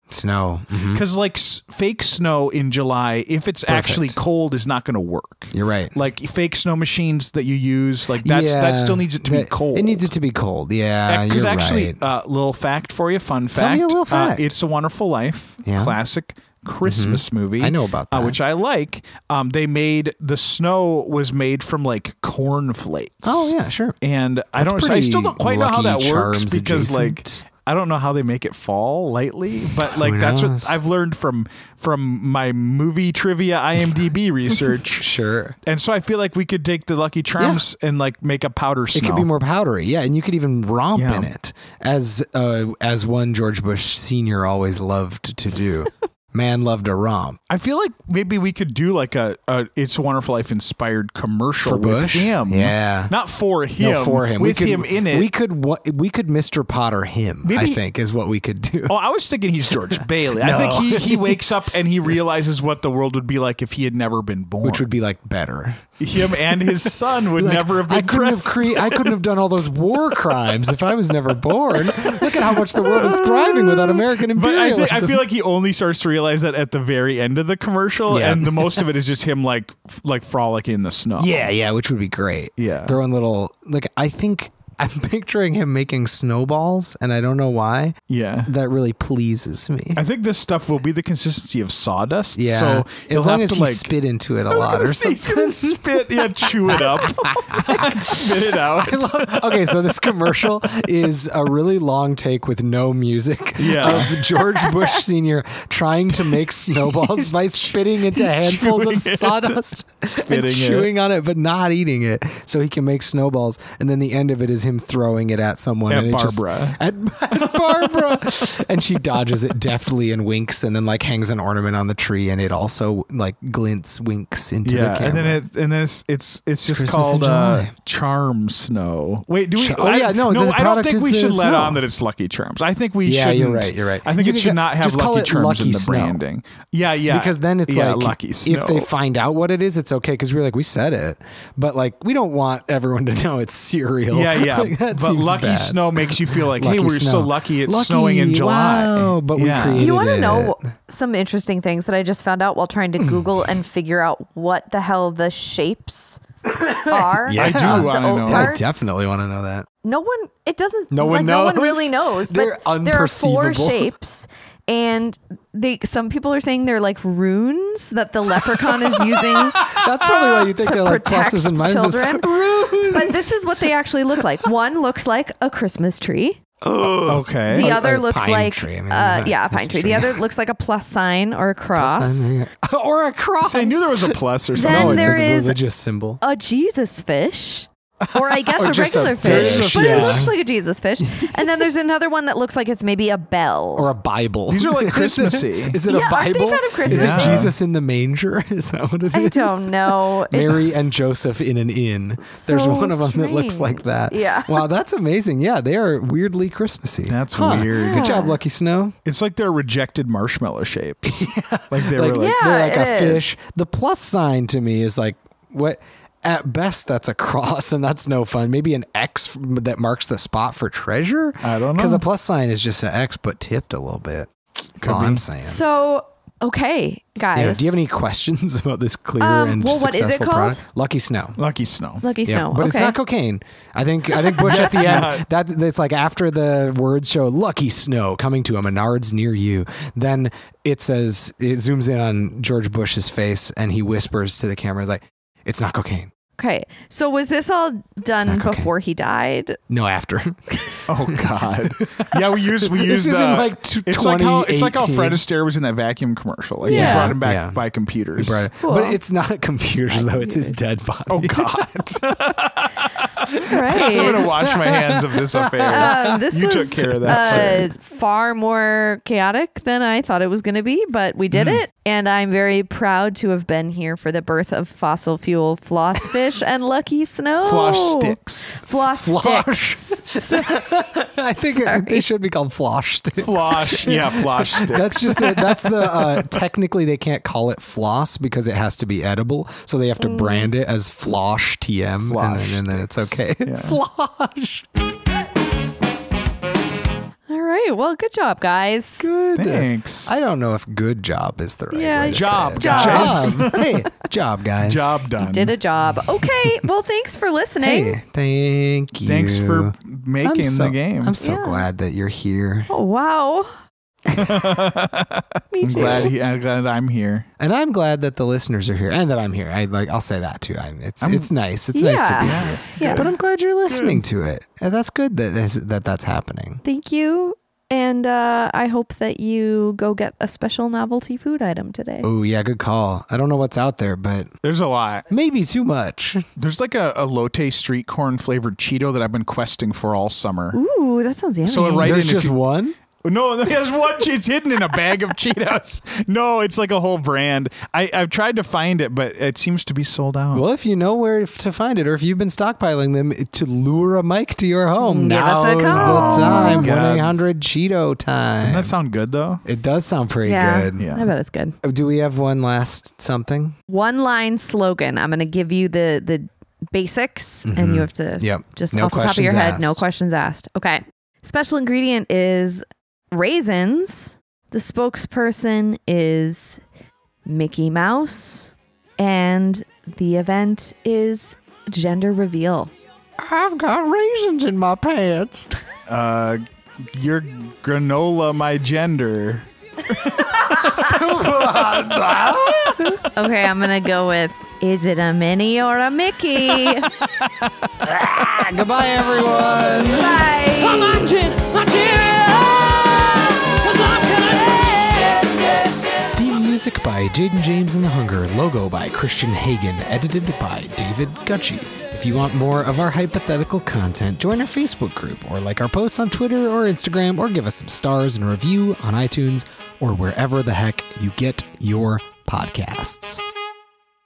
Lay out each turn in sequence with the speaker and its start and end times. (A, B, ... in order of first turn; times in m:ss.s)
0:00.1-0:01.0 A
0:00.9-0:10.1 B
0:03.7-0:04.2 A
0:05.5-0:06.0 A
0:08.2-0:12.0 A
0:11.1-0:35.0 B
0:13.6-0:14.6 A
0:15.6-0:16.0 A
0:16.8-0:18.4 A
0:23.2-0:24.0 A
0:24.6-0:27.4 A
0:29.8-0:30.8 A
0:34.9-0:35.6 A
0:35.6-0:39.3 B
0:37.4-0:37.6 A
0:39.0-0:47.4 A
0:41.0-0:41.3 B
0:47.5-0:55.3 B
0:51.6-0:53.1 A
0:53.8-0:59.0 A
0:57.4-0:57.8 B
0:58.9-1:04.9 B
0:59.7-1:01.5 A
1:04.6-1:15.2 A
1:06.0-1:10.2 B
1:11.8-1:21.5 B
1:18.1-1:18.8 A
1:21.2-1:30.0 A
1:22.6-1:23.0 B
1:28.1-1:28.5 B
1:30.0-1:33.9 B
1:32.4-2:05.4 A
1:34.5-1:40.5 B
1:43.6-1:44.2 B
1:44.3-1:45.0 C
1:46.3-1:50.9 B
1:55.9-1:56.8 B
1:57.3-1:58.5 B
2:04.6-2:18.9 B
2:06.7-2:07.7 A
2:09.6-2:11.8 A
2:13.0-2:16.2 A
2:17.1-2:30.6 A
2:24.1-2:29.9 B
2:29.7-2:36.2 C
2:33.0-2:33.6 A
2:36.5-2:39.7 A
2:36.8-2:38.9 C
2:37.3-2:38.5 B
2:39.8-2:56.4 C
2:40.9-2:43.9 A
2:49.6-2:53.5 A
2:56.6-3:00.2 A
2:57.1-2:57.7 B
2:57.5-3:02.3 C
3:01.8-3:03.9 A
3:03.4-3:05.2 B
3:03.6-3:03.8 C
3:04.6-3:05.6 C
3:04.6-3:06.2 A
3:06.2-3:13.9 C
3:08.1-3:10.3 B
3:08.6-3:10.3 A
3:13.8-3:29.0 A
3:14.5-3:15.8 B
3:15.9-3:17.5 C
3:16.9-3:17.5 B
3:19.1-3:21.0 C
3:22.2-3:24.7 C
3:27.1-3:28.1 B
3:27.4-3:28.4 C
3:29.0-3:32.4 B
3:31.2-3:45.6 A
3:32.1-3:33.3 C
3:41.4-3:42.1 B
3:44.8-3:45.2 B
3:45.4-3:47.8 C
3:47.4-3:51.4 A
3:49.2-3:50.6 C
3:51.4-3:52.1 B
3:52.0-3:53.0 C
3:52.2-4:06.1 A
3:54.4-3:55.3 B
4:06.4-4:09.6 C
4:08.2-4:08.7 A
4:09.7-4:15.2 A
4:10.9-4:18.5 B
4:16.6-4:17.6 A
4:16.7-4:17.2 C
4:18.2-4:21.9 A
4:18.6-4:19.0 C
4:19.9-4:20.6 C
4:21.1-4:27.7 B
4:23.4-4:24.6 C
4:23.8-4:26.2 A
4:25.7-4:40.8 C
4:27.0-4:27.6 A
4:31.3-4:31.6 B
4:37.4-4:38.6 B
4:39.0-4:54.7 A
4:41.4-4:42.0 C
4:43.2-4:46.4 B
4:50.0-4:50.5 C
4:52.0-4:53.8 B
4:57.3-4:59.1 C
4:59.0-5:04.9 A
4:59.4-5:00.1 B
5:01.7-5:03.8 C
5:02.1-5:03.8 B
5:04.6-5:05.6 B
5:05.2-5:08.0 C
5:06.2-5:06.6 A
5:07.6-5:12.7 A
5:09.0-5:11.2 B
5:11.2-5:11.7 C
5:12.7-5:13.5 C
5:14.1-5:17.3 B
5:15.5-5:16.1 C
5:17.4-5:26.6 A
5:21.0-5:21.3 B
5:21.7-5:23.1 C
5:22.2-5:23.1 B
5:23.7-5:24.0 B
5:26.6-5:32.1 C
5:32.0-5:34.3 A
5:34.4-5:35.1 B
5:35.1-5:36.3 A
5:36.4-5:40.6 B
5:40.5-5:42.0 C
5:41.4-5:42.4 B
5:41.8-5:42.8 A
5:43.0-5:50.4 B
5:50.3-5:58.7 A
5:54.8-5:56.7 C
5:55.7-5:57.2 B
5:58.4-5:59.4 B
5:59.4-6:00.9 A
6:00.2-6:01.6 C
6:00.8-6:01.1 B
6:01.6-6:03.6 A
6:03.7-6:16.6 C
6:07.4-6:09.8 A
6:17.3-6:22.7 C
6:23.2-6:25.5 A
6:25.9-6:31.0 B
6:30.4-6:33.0 A
6:33.2-6:36.9 C
6:37.0-6:38.5 B
6:37.8-6:40.3 A
6:39.9-6:41.2 C
6:40.6-6:45.5 D
6:43.6-6:45.4 C
6:46.1-7:03.2 A